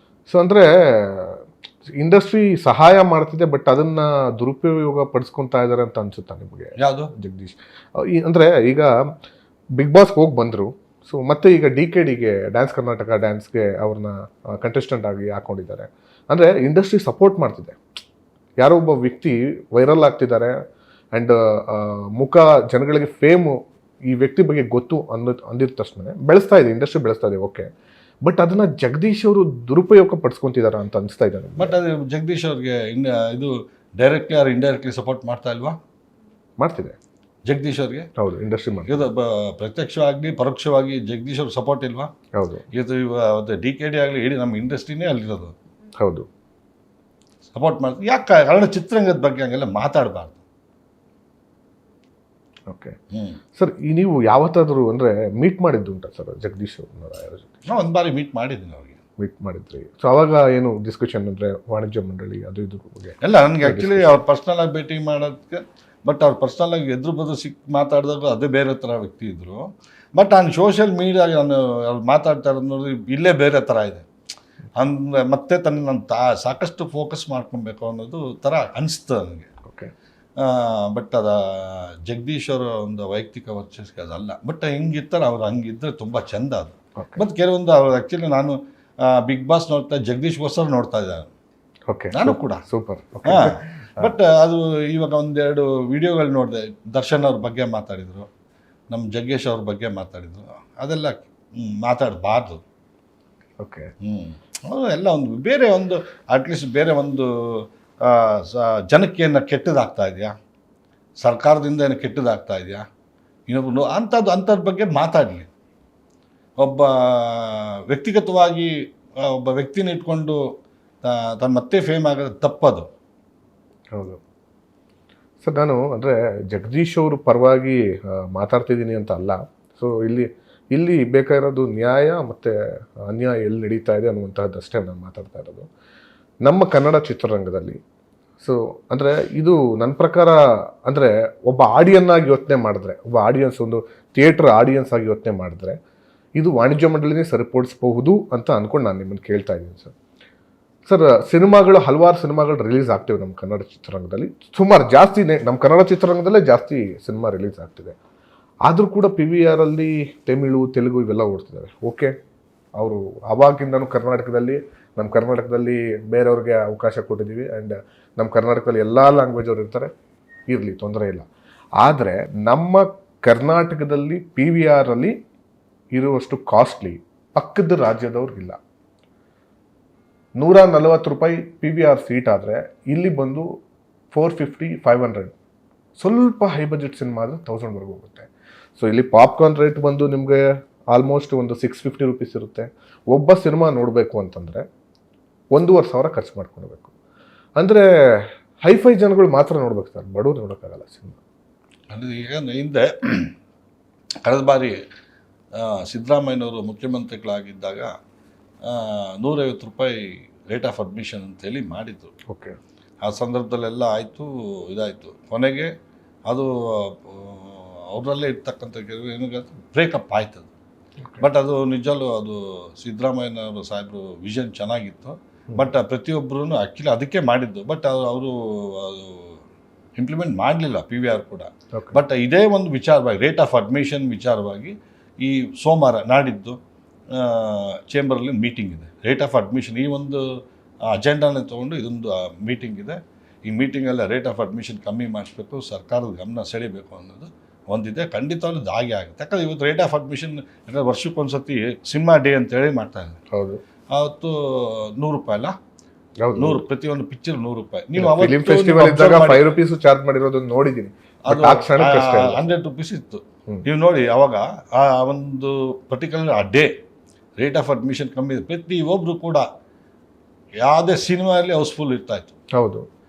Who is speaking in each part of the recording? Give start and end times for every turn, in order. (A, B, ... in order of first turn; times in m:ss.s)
0:00.3-0:08.9 A
0:06.8-0:07.1 B
0:09.8-0:17.8 A
0:18.6-0:20.6 A
0:21.1-0:27.7 A
0:28.2-0:31.8 A
0:31.6-0:35.8 B
0:36.6-0:37.0 A
0:37.4-0:38.1 B
0:38.2-0:39.0 A
0:38.9-0:42.1 B
0:42.4-0:42.6 A
0:42.7-0:45.5 B
0:46.0-0:46.2 A
0:47.5-0:50.4 B
0:52.7-0:52.9 A
0:53.1-0:53.4 B
0:53.6-0:57.6 A
0:57.7-0:59.0 B
0:59.2-1:04.2 A
1:03.2-1:14.0 B
1:14.8-1:19.5 B
1:19.6-1:19.9 A
1:20.4-1:31.3 B
1:27.0-1:27.2 A
1:31.9-1:34.1 A
1:32.1-1:32.6 B
1:33.2-1:38.3 B
1:38.9-1:42.6 B
1:43.6-1:43.9 A
1:44.0-1:50.3 B
1:51.2-1:52.8 B
1:53.5-1:55.5 B
1:56.6-2:00.4 B
2:01.0-2:02.9 B
2:03.9-2:04.2 A
2:05.4-2:15.7 A
2:16.4-2:17.8 A
2:18.4-2:25.8 A
2:26.4-2:29.9 A
2:30.8-2:38.0 A
2:38.6-2:42.1 A
2:42.8-2:49.9 A
2:50.5-2:51.3 A
2:51.8-2:55.2 A
2:55.9-2:58.6 A
3:00.4-3:03.5 A
3:04.1-3:05.3 A
3:06.0-3:14.6 A
3:15.5-3:16.9 A
3:17.6-3:21.2 A
3:21.9-3:23.3 B
3:24.2-3:24.8 B
3:25.5-3:27.9 B
3:28.6-3:32.1 B
3:32.3-3:32.6 A
3:33.0-3:35.7 B
3:36.3-3:40.5 B
3:41.2-3:49.4 B
3:50.0-3:56.6 B
3:57.1-4:00.2 B
4:00.8-4:13.2 B
4:13.3-4:13.6 A
4:13.9-4:15.6 B
4:16.2-4:16.6 A
4:16.4-4:19.4 B
4:18.0-4:22.5 A
4:21.3-4:26.7 B
4:27.4-4:29.4 B
4:30.6-4:32.3 B
4:32.6-4:32.8 A